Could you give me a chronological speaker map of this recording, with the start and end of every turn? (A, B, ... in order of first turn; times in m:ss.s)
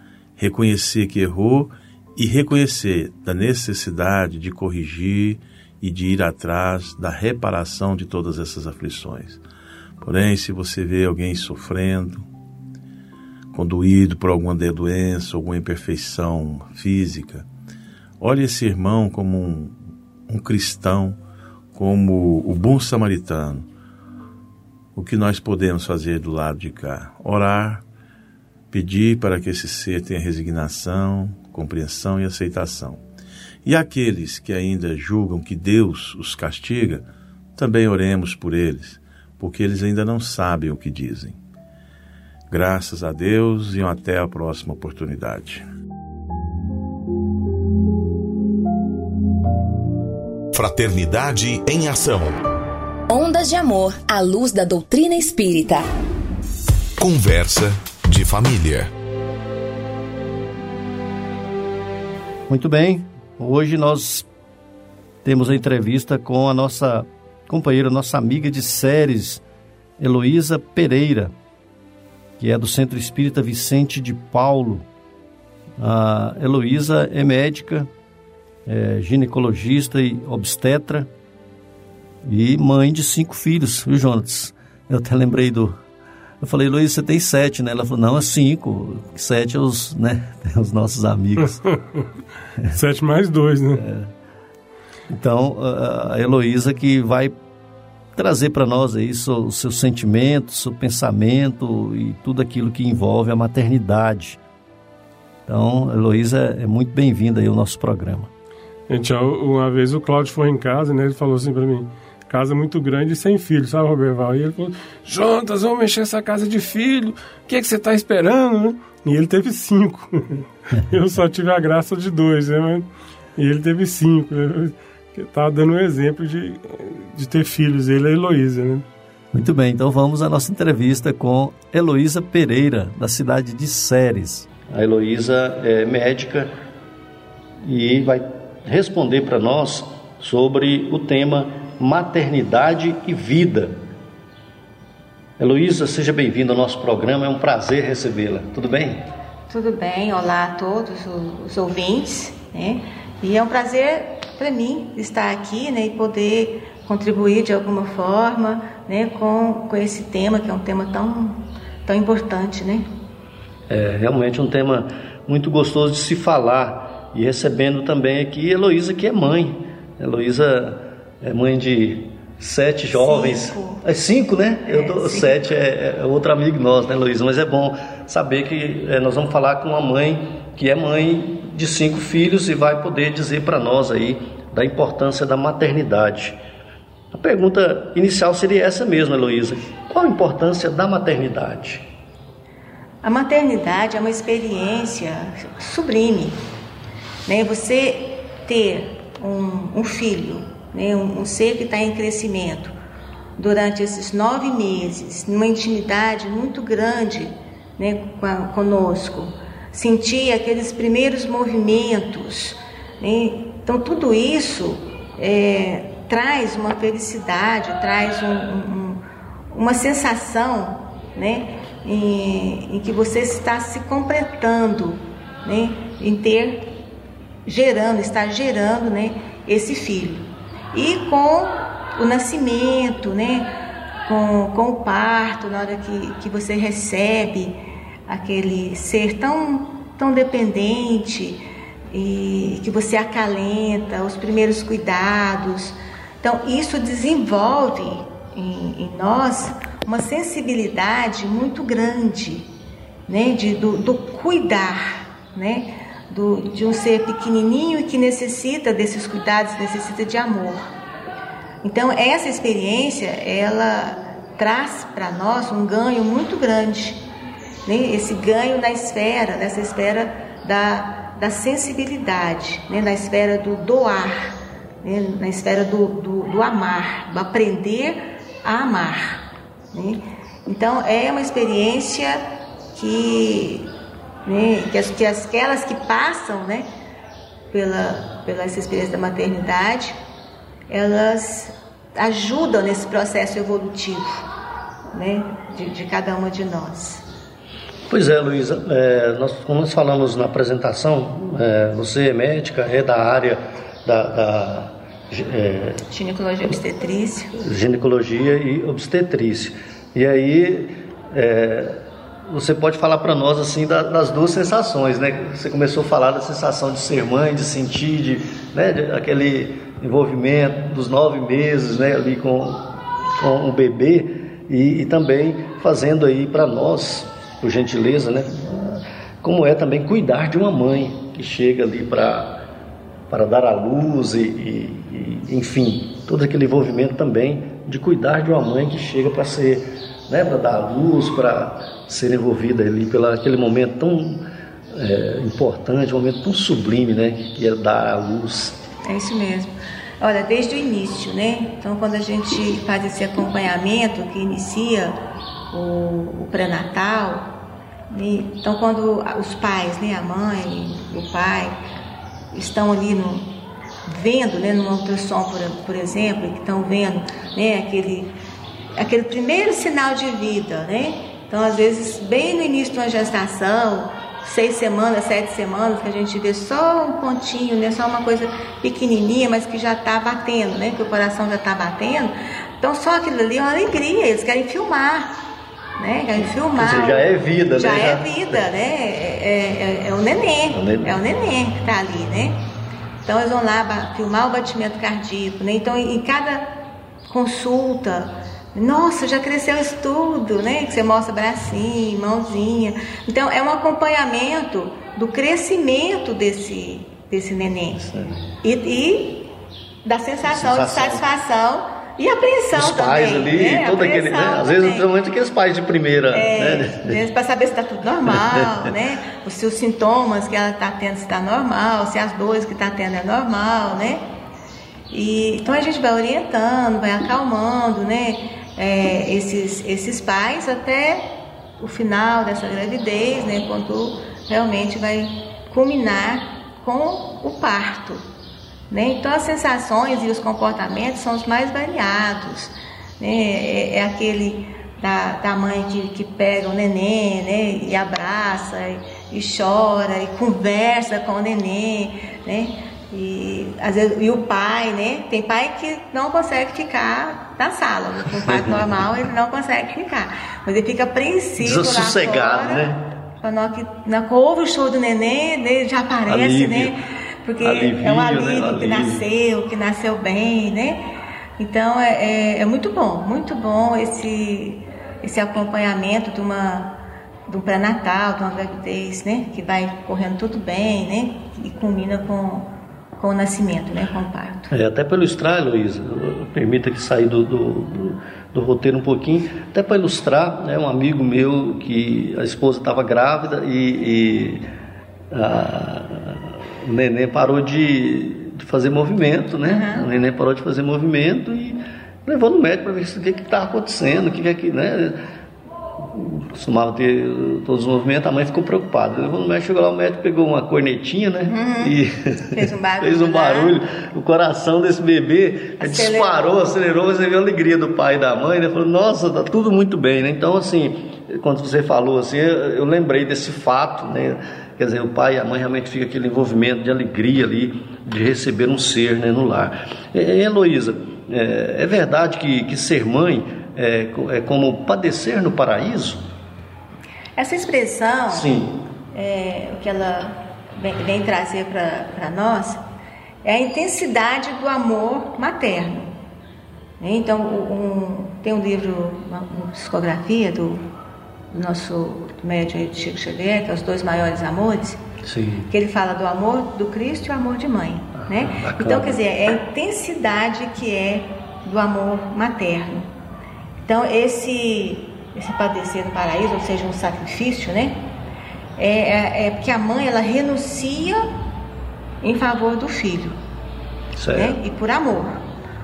0:00.4-0:09.4 A
0:10.0-0:12.2 A
0:13.5-0:17.4 A
0:18.2-0:19.8 A
0:20.3-0:21.2 A
0:21.7-0:23.6 A
0:24.9-0:27.8 A
0:28.7-0:33.0 A
0:33.6-0:37.0 A
0:37.6-0:41.4 A
0:42.5-0:45.6 A
0:50.5-0:52.4 B
0:53.1-0:55.9 C
0:57.0-0:58.9 B
1:02.5-1:04.2 D
1:05.2-1:09.4 D
1:10.0-1:11.3 D
1:12.4-1:14.8 D
1:15.8-1:17.9 D
1:18.6-1:21.1 D
1:22.2-1:25.8 D
1:26.4-1:31.6 D
1:32.7-1:33.8 E
1:33.7-1:34.1 D
1:35.1-1:37.3 D
1:38.1-1:44.4 D
1:45.5-1:48.3 D
1:48.9-2:08.8 E
2:09.3-2:16.5 D
2:17.6-2:23.8 D
2:25.4-2:29.0 D
2:29.5-2:42.9 F
2:43.7-3:06.4 D
2:52.9-2:53.8 F
2:54.7-2:55.5 F
3:07.1-3:11.8 D
3:13.0-3:16.4 F
3:17.2-3:22.7 F
3:23.4-3:39.0 F
3:39.5-3:46.6 F
3:47.4-3:53.5 F
3:54.0-4:12.5 F
4:13.1-4:20.7 F
4:21.6-4:27.0 F
4:27.6-4:39.2 F
4:39.7-4:42.2 F
4:42.7-4:43.7 F
4:44.2-4:46.7 F
4:47.5-4:50.0 F
4:50.7-4:54.2 F
4:54.9-4:57.0 F
4:57.9-5:05.8 D
5:05.8-5:07.3 F
5:07.4-5:32.4 D
5:33.1-5:48.6 D
5:48.8-5:55.0 F
5:55.5-5:57.3 F
5:57.9-6:01.5 F
6:02.3-6:03.3 F
6:03.8-6:08.1 F
6:08.8-6:25.1 F
6:25.8-6:32.4 F
6:26.5-6:28.4 D
6:30.5-6:30.9 D
6:33.0-6:36.4 F
6:37.1-6:47.8 F
6:47.8-6:48.3 D
6:48.4-6:49.3 F
6:49.8-6:54.9 F
6:50.2-6:51.0 D
6:52.6-6:57.0 D
6:56.1-7:04.0 F
6:58.1-6:58.4 D
7:04.9-7:11.0 F
7:11.6-7:18.0 F
7:18.7-7:50.8 F
7:38.2-7:38.6 D
7:41.4-7:42.8 D
7:46.1-7:46.7 D
7:47.4-7:49.0 D
7:51.4-7:56.8 F
7:57.3-8:04.5 F
8:04.5-8:14.4 D
8:15.1-8:25.0 D
8:19.4-8:19.8 F
8:25.9-8:56.1 D
8:31.3-8:31.8 F
8:32.3-8:33.6 F
8:35.6-8:36.4 F
8:57.2-8:58.3 F
8:58.1-8:58.6 D
8:58.9-9:02.6 F
9:03.2-9:05.9 F
9:06.8-9:10.6 F
9:11.3-9:14.8 F
9:15.0-9:15.5 D
9:15.5-9:22.9 F
9:18.0-9:19.0 D
9:23.6-9:27.8 F
9:28.6-9:31.0 F
9:32.0-9:33.2 F
9:34.0-9:34.4 D
9:34.1-9:35.2 F